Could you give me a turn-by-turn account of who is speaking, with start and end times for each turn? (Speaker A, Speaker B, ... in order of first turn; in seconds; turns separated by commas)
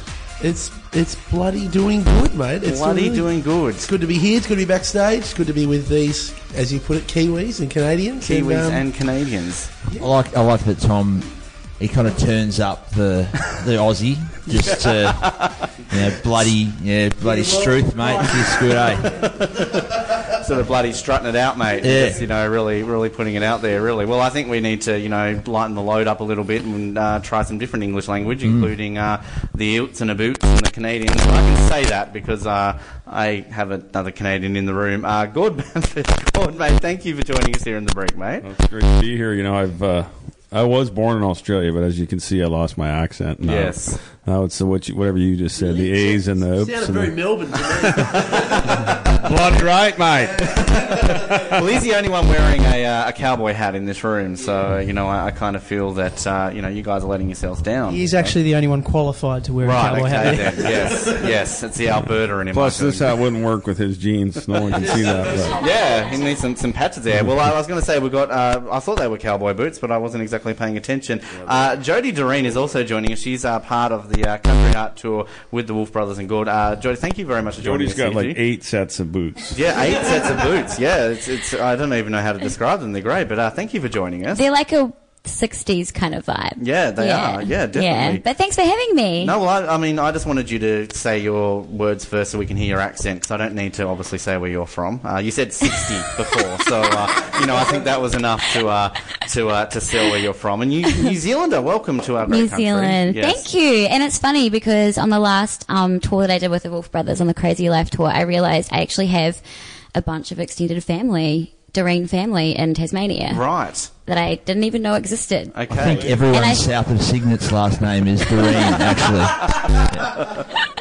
Speaker A: 0.4-8.9, Speaker B: 2.6-3.9, Speaker B: 8.2-9.7, Speaker A: 9.9-10.1, Speaker C: 10.0-19.1, Speaker B: 14.5-15.7, Speaker A: 17.2-19.3, Speaker B: 19.2-38.5, Speaker C: 21.8-22.2, Speaker C: 28.4-28.7, Speaker D: 38.4-51.6, Speaker B: 43.4-44.0, Speaker A: 45.5-49.2, Speaker B: 51.5-58.4, Speaker E: 57.9-61.2, Speaker B: 59.6-63.2, Speaker D: 62.0-65.6, Speaker B: 65.4-78.4, Speaker D: 77.6-79.6, Speaker B: 79.5-84.4, Speaker F: 84.3-89.3, Speaker B: 86.6-88.3, Speaker B: 89.2-103.5, Speaker F: 102.3-109.4, Speaker F: 110.0-115.6, Speaker B: 113.3-113.9, Speaker B: 115.5-116.1, Speaker D: 115.7-116.3, Speaker C: 115.7-120.1, Speaker F: 116.2-116.7, Speaker B: 119.6-120.4